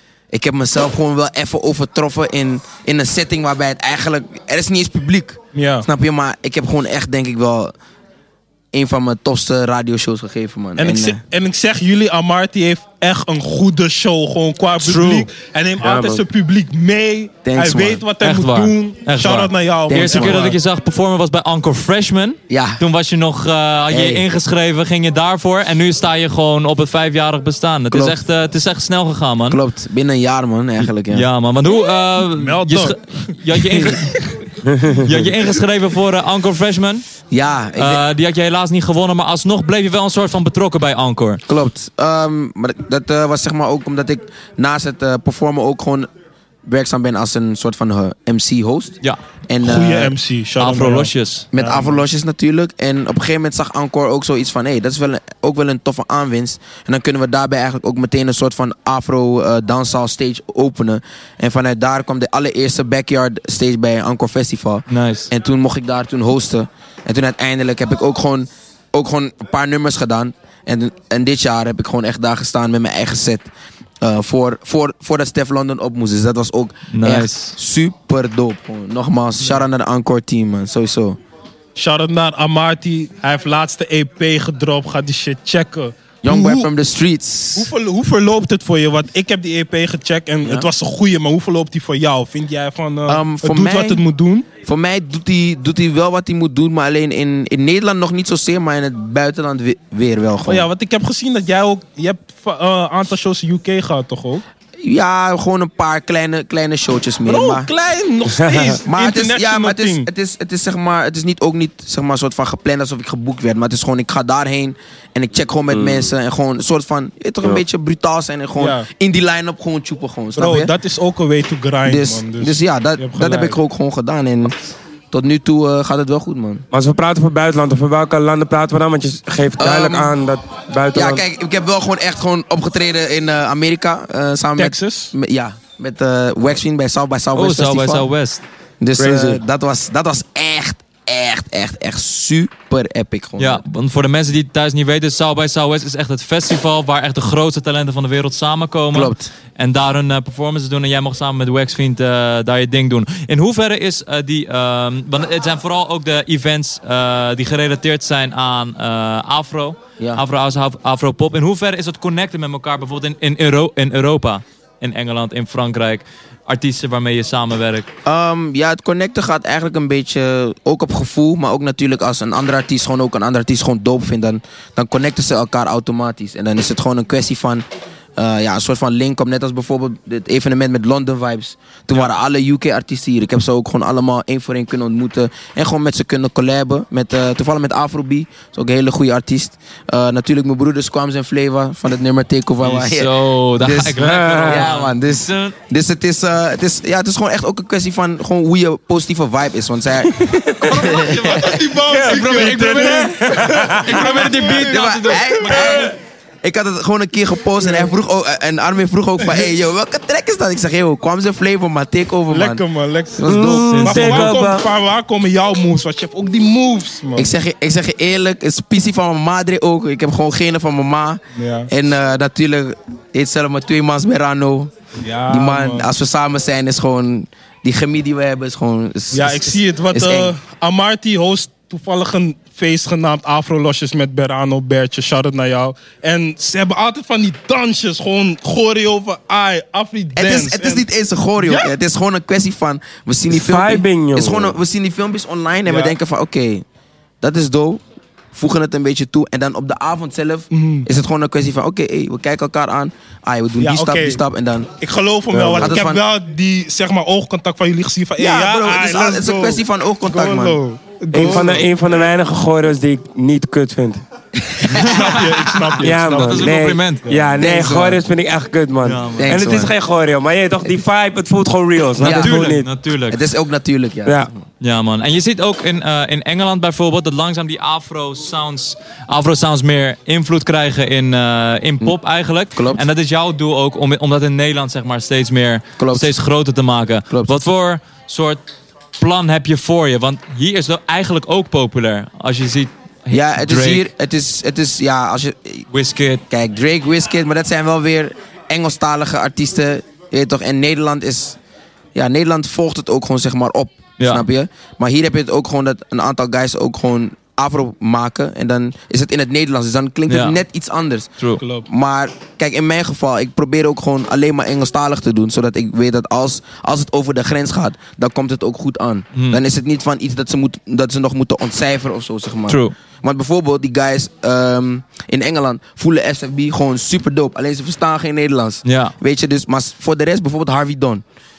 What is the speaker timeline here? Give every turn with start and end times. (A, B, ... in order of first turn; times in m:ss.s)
0:00.3-0:07.7 A
0:05.5-0:05.9 B
0:08.7-0:11.2 A
0:10.8-0:20.6 B
0:14.8-0:15.3 C
0:15.8-0:16.2 D
0:17.4-0:18.0 A
0:18.2-0:29.6 C
0:19.9-0:20.6 A
0:22.5-0:22.8 A
0:23.9-0:24.3 A
0:27.9-0:28.2 A
0:29.5-0:31.3 A
0:31.1-0:34.4 C
0:32.3-0:33.0 B
0:33.7-0:34.1 B
0:34.7-0:35.0 D
0:34.9-0:37.1 C
0:37.3-0:38.0 A
0:37.8-0:41.4 C
0:41.5-0:46.1 A
0:46.6-0:49.0 A
0:49.5-0:50.2 A
0:49.6-0:52.0 B
0:50.6-0:51.5 C
0:51.5-1:13.5 A
1:04.9-1:05.3 C
1:14.0-1:21.2 A
1:16.9-1:17.6 C
1:21.8-1:26.7 B
1:26.2-1:27.7 A
1:27.6-1:34.5 B
1:30.4-1:30.7 A
1:33.1-1:34.0 A
1:34.6-1:40.7 A
1:40.5-1:44.4 B
1:44.8-1:47.7 A
1:47.2-1:50.1 B
1:48.3-1:48.8 D
1:48.8-2:00.7 A
1:55.7-1:56.1 D
1:58.6-1:58.9 B
2:00.4-2:03.6 B
2:01.8-2:04.5 A
2:05.1-2:06.6 A
2:06.7-2:11.2 D
2:09.6-2:10.2 A
2:10.9-2:18.1 A
2:14.6-2:15.1 B
2:17.4-2:18.4 C
2:18.8-2:23.6 A
2:19.0-2:19.4 D
2:23.4-2:47.9 C
2:28.9-2:29.3 A
2:48.0-2:57.7 A
2:58.2-3:21.6 A
3:12.6-3:15.6 C
3:14.0-3:14.7 D
3:20.6-3:21.0 D
3:20.8-3:25.9 B
3:20.8-3:25.9 C
3:21.8-3:24.1 D
3:24.2-3:32.6 A
3:27.6-3:27.9 B
3:29.2-3:29.5 B
3:32.3-3:33.3 B
3:33.2-3:34.3 A
3:33.2-3:34.7 D
3:33.7-3:34.3 C
3:33.8-3:37.3 B
3:37.2-3:44.7 A
3:41.4-3:41.7 B
3:45.0-3:45.9 B
3:45.3-3:50.3 A
3:49.1-4:00.9 B
4:00.2-4:06.6 A
4:01.4-4:01.7 B
4:03.3-4:04.6 D
4:05.7-4:06.0 B
4:07.2-4:14.7 A
4:10.5-4:10.9 B
4:13.6-4:14.2 B
4:14.8-4:21.7 B
4:15.3-4:15.8 D
4:15.6-4:16.0 A
4:18.2-4:20.6 A
4:21.1-4:24.0 D
4:24.4-4:25.7 A
4:24.7-4:27.4 B
4:24.7-4:25.2 C
4:25.8-4:27.1 C
4:25.8-4:32.7 D
4:27.4-4:28.0 A
4:28.8-4:29.4 C
4:29.2-4:29.7 A
4:32.0-4:34.4 A
4:32.0-4:33.2 C
4:34.1-4:34.3 D
4:34.6-4:48.4 C
4:42.6-4:42.8 A
4:45.8-4:46.1 A
4:47.1-4:47.4 A
4:49.0-4:53.9 C
4:53.1-4:55.6 A
4:55.7-4:56.2 C
4:56.3-5:01.4 A
5:02.0-5:11.1 A
5:04.0-5:04.2 C
5:10.1-5:10.4 C
5:11.4-5:11.7 B
5:11.7-5:31.0 A
5:19.2-5:19.4 C
5:22.5-5:22.8 C
5:28.6-5:28.9 C